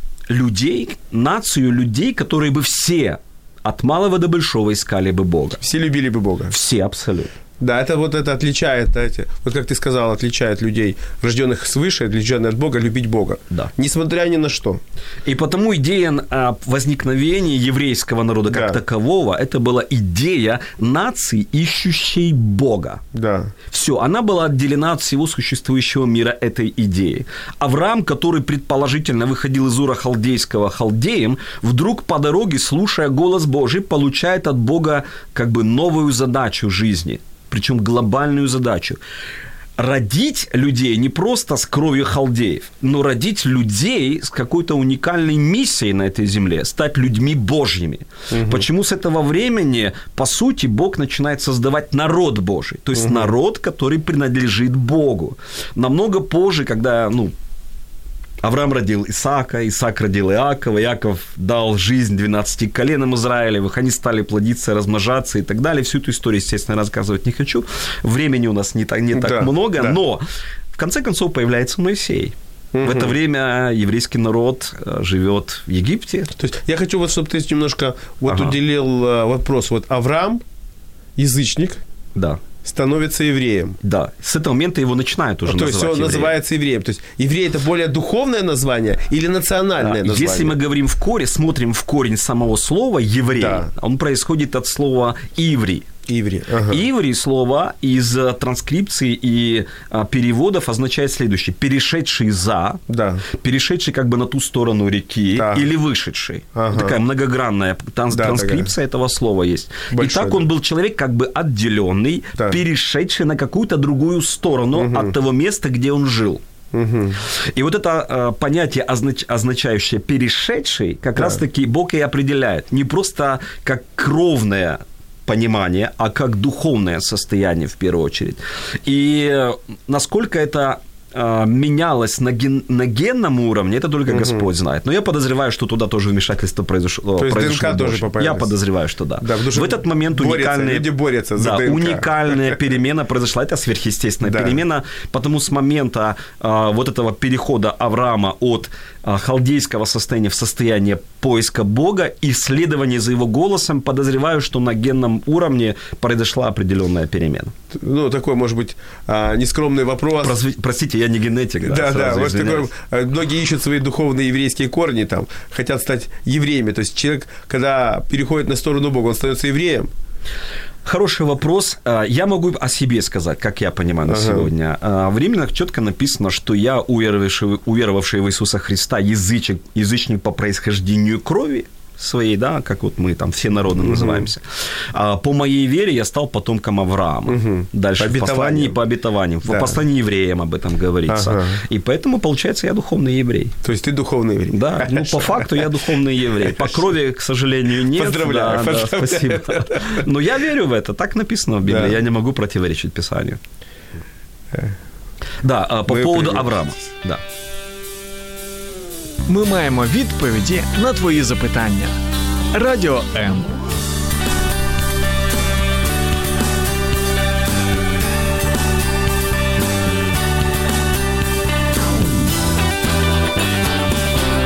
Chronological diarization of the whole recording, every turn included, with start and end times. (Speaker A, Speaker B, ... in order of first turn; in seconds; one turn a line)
Speaker A: 0.3-5.6
Speaker B: 5.6-6.5
Speaker A: 6.5-7.3
Speaker B: 7.6-14.8
Speaker A: 15.2-23.0
Speaker B: 18.5-18.8
Speaker B: 23.1-23.5
Speaker A: 23.7-39.0
Speaker A: 39.8-57.3
Speaker B: 48.3-48.6
Speaker B: 53.0-53.3
Speaker A: 58.4-70.2
Speaker B: 69.1-70.0
Speaker A: 70.7-76.3
Speaker B: 72.7-73.1
Speaker B: 76.4-80.4
Speaker A: 78.3-78.5
Speaker B: 81.2-81.8
Speaker A: 82.2-82.4
Speaker B: 82.6-83.8
Speaker A: 83.8-86.3
Speaker B: 85.5-90.5
Speaker A: 89.8-95.9
Speaker B: 93.4-93.7
Speaker B: 96.1-96.8
Speaker A: 96.7-116.4
Speaker B: 102.9-103.2
Speaker B: 105.3-105.7
Speaker B: 106.5-107.0
Speaker B: 108.1-108.7
Speaker B: 109.9-110.4
Speaker B: 114.7-115.2
Speaker B: 116.7-117.2
Speaker A: 117.3-157.5
Speaker B: 121.2-121.4
Speaker B: 134.1-134.5
Speaker B: 137.2-138.5
Speaker B: 139.2-142.5
Speaker B: 144.2-144.6
Speaker B: 157.7-160.4
Speaker A: 160.2-162.7
Speaker B: 161.6-169.9
Speaker A: 170.8-193.6
Speaker B: 174.1-174.5
Speaker B: 183.8-184.2
Speaker B: 187.3-188.8
Speaker B: 189.4-189.8
Speaker B: 191.1-191.6
Speaker B: 193.6-195.7
Speaker A: 194.5-203.4
Speaker B: 196.4-196.8
Speaker B: 197.9-200.1
Speaker B: 201.6-202.0
Speaker A: 205.4-207.2
Speaker B: 205.9-206.5
Speaker C: 209.3-212.0
Speaker C: 212.5-213.5